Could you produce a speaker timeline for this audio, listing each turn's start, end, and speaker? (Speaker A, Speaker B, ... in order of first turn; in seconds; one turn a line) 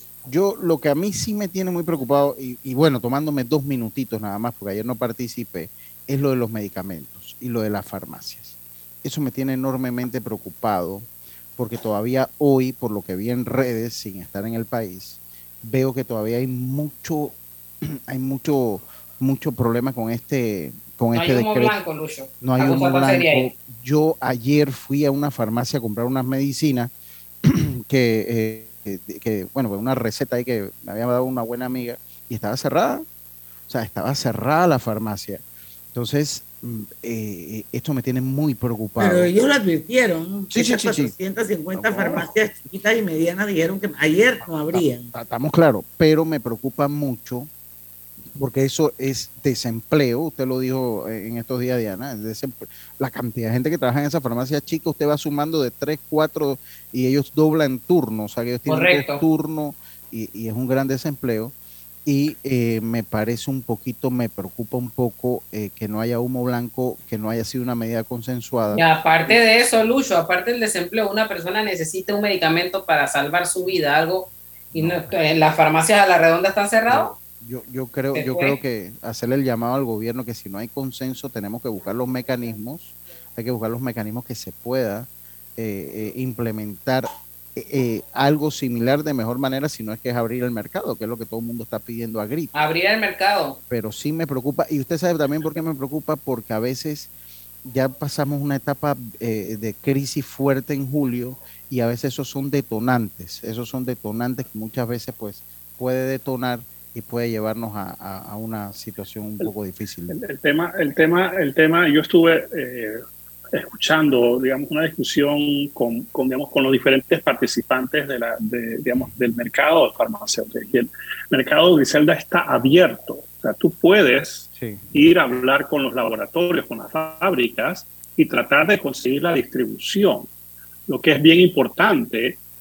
Speaker A: 0.2-21.8
Speaker B: 21.1-23.5
Speaker A: 22.4-26.9
Speaker A: 27.5-33.0
Speaker A: 33.7-35.4
Speaker A: 35.9-39.3
Speaker C: 39.0-45.1
Speaker A: 40.5-41.1
Speaker A: 41.8-42.3
Speaker A: 44.7-47.5
Speaker A: 48.4-61.5
Speaker B: 58.7-59.2
Speaker A: 62.0-69.4
Speaker B: 68.7-77.1
Speaker A: 74.7-75.1
Speaker A: 76.9-92.5
Speaker B: 78.1-78.6
Speaker B: 92.5-93.6
Speaker A: 93.7-97.1
Speaker A: 97.6-110.2
Speaker D: 110.1-113.0
Speaker D: 113.5-130.3
Speaker A: 124.5-124.8
Speaker D: 130.9-132.4